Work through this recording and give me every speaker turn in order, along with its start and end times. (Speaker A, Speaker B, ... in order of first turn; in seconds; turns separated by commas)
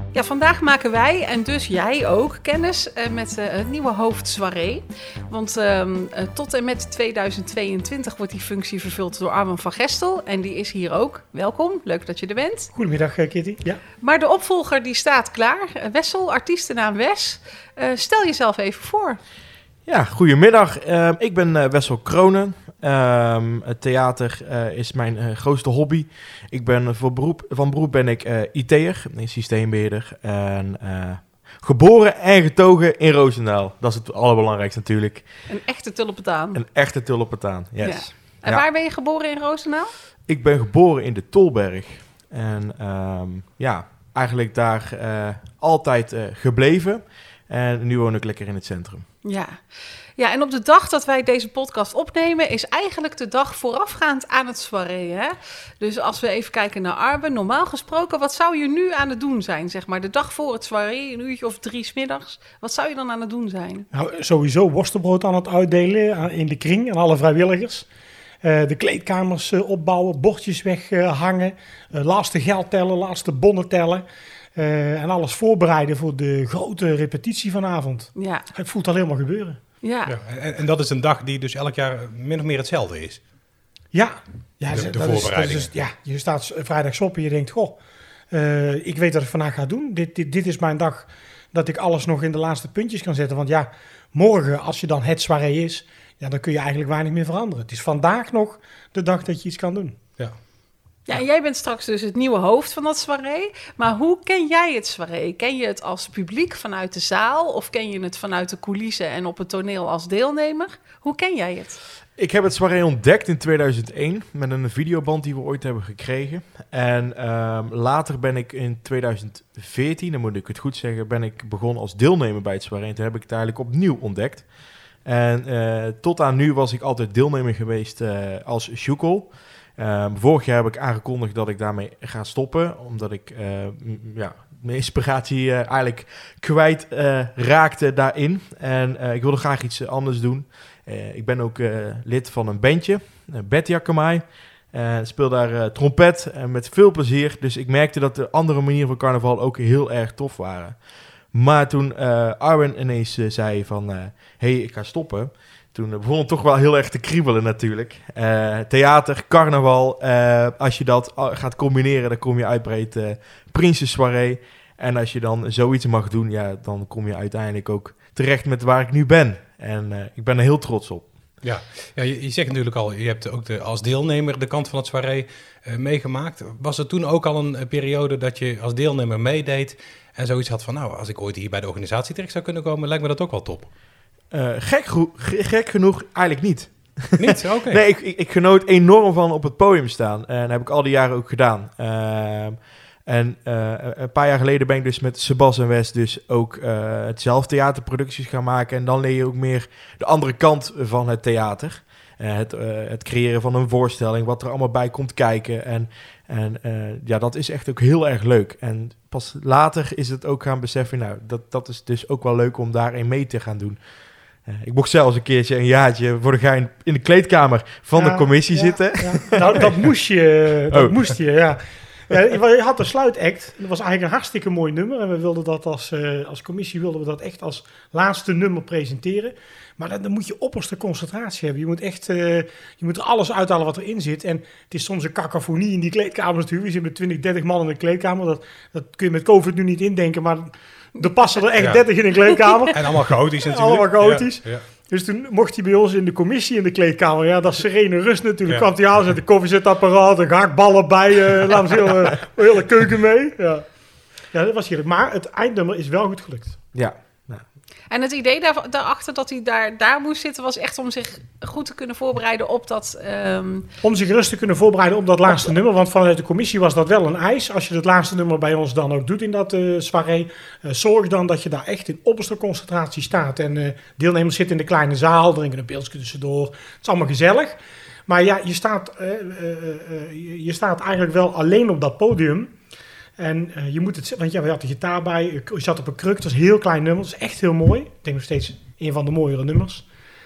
Speaker A: 0.1-12.7, Speaker B: 12.7-13.8, Speaker A: 14.0-19.2, Speaker C: 19.9-35.5, Speaker A: 35.5-36.6, Speaker C: 36.5-38.7, Speaker A: 37.8-39.9, Speaker C: 40.3-49.1, Speaker A: 49.2-63.9, Speaker B: 63.9-67.9, Speaker B: 68.4-74.0, Speaker B: 74.5-79.6, Speaker A: 78.2-78.5, Speaker A: 79.8-80.1, Speaker D: 80.1-83.3, Speaker B: 83.9-87.8, Speaker D: 84.7-85.7, Speaker B: 88.3-100.0, Speaker A: 101.1-111.8, Speaker C: 112.2-171.2, Speaker D: 171.4-183.7, Speaker C: 184.3-219.6, Speaker D: 187.2-187.8, Speaker B: 217.9-256.6, Speaker C: 220.7-221.1, Speaker D: 241.6-244.7, Speaker D: 248.5-249.0, Speaker C: 256.7-257.4, Speaker A: 257.9-263.7, Speaker B: 263.8-277.6, Speaker B: 278.1-282.6, Speaker B: 283.2-289.9